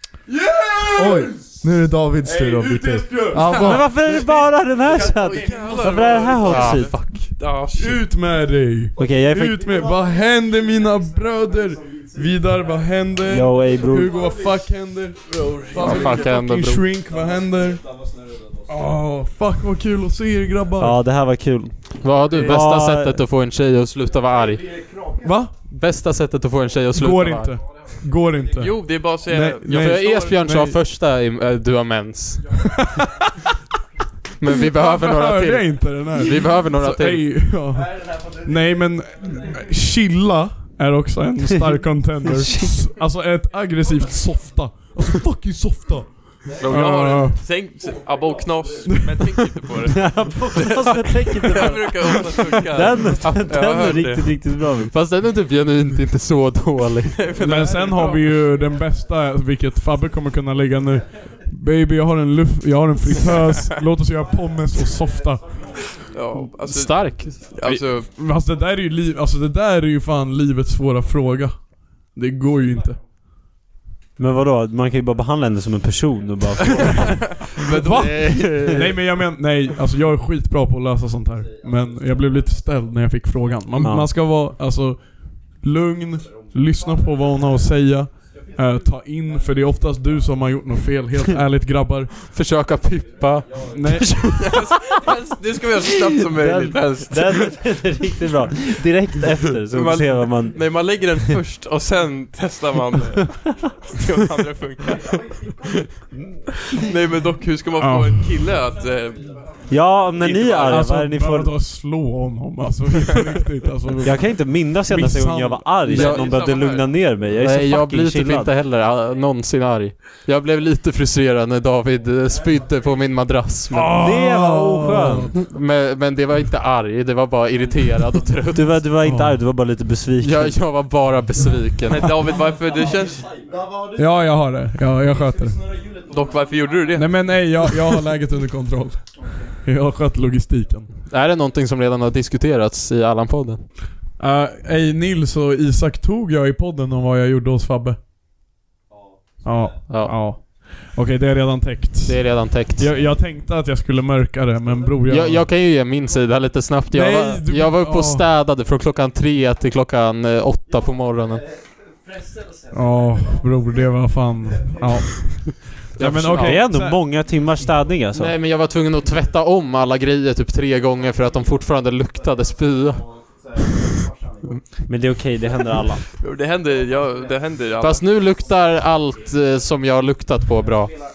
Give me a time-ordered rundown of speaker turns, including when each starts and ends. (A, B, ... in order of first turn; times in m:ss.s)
0:00.3-0:01.4 A
0:00.9-0:03.9 B
0:02.2-0:03.4 A
0:03.4-0:07.2 C
0:03.7-0:08.0 D
0:06.4-0:07.3 E
0:07.7-0:17.8 A
0:09.0-0:09.7 C
0:13.2-0:14.2 C
0:15.3-0:16.3 D
0:15.8-0:16.9 E
0:18.7-0:21.0 A
0:20.8-0:23.2 C
0:22.0-0:24.8 E
0:25.2-0:25.5 A
0:25.6-0:27.6 E
0:26.9-0:30.8 A
0:28.6-0:30.4 D
0:29.7-0:32.6 E
0:34.4-0:37.5 E
0:34.6-0:47.4 A
0:42.2-0:42.7 C
0:46.6-0:54.5 D
0:48.9-0:49.3 A
0:49.8-0:54.9 C
0:54.9-0:57.3 E
0:57.1-0:58.4 D
0:57.4-1:05.8 A
1:06.1-1:08.1 D
1:06.6-1:07.6 E
1:07.6-1:13.0 A
1:14.2-1:17.4 C
1:16.8-1:18.6 D
1:17.7-1:32.1 A
1:17.8-1:18.9 E
1:18.5-1:18.8 C
1:23.8-1:24.1 C
1:32.2-1:35.0 E
1:33.7-1:34.2 A
1:34.4-1:37.5 D
1:36.2-1:40.6 C
1:39.7-1:45.8 D
1:46.7-1:49.3 D
1:47.8-1:48.3 A
1:49.7-1:51.6 C
1:50.2-1:50.9 D
1:50.6-1:56.2 A
1:54.0-1:58.5 C
1:55.9-1:56.9 D
1:55.9-1:56.3 E
1:57.4-2:04.0 E
2:03.7-2:05.3 A
2:03.9-2:05.3 C
2:05.3-2:08.9 E
2:08.5-2:10.6 C
2:09.0-2:09.4 A
2:10.2-2:12.2 E
2:11.9-2:13.3 D
2:13.9-2:15.6 A
2:16.1-2:17.4 D
2:17.0-2:20.9 A
2:21.1-2:23.6 E
2:24.2-2:28.0 A
2:29.4-2:35.5 A
2:29.8-2:30.3 E
2:32.0-2:33.0 E
2:35.1-2:41.4 E
2:36.9-2:38.2 A
2:42.7-2:47.0 A
2:46.0-2:46.7 E
2:46.3-2:48.3 C
2:48.1-2:53.0 E
2:54.8-2:56.0 C
2:56.2-2:58.0 D
2:57.8-3:01.0 E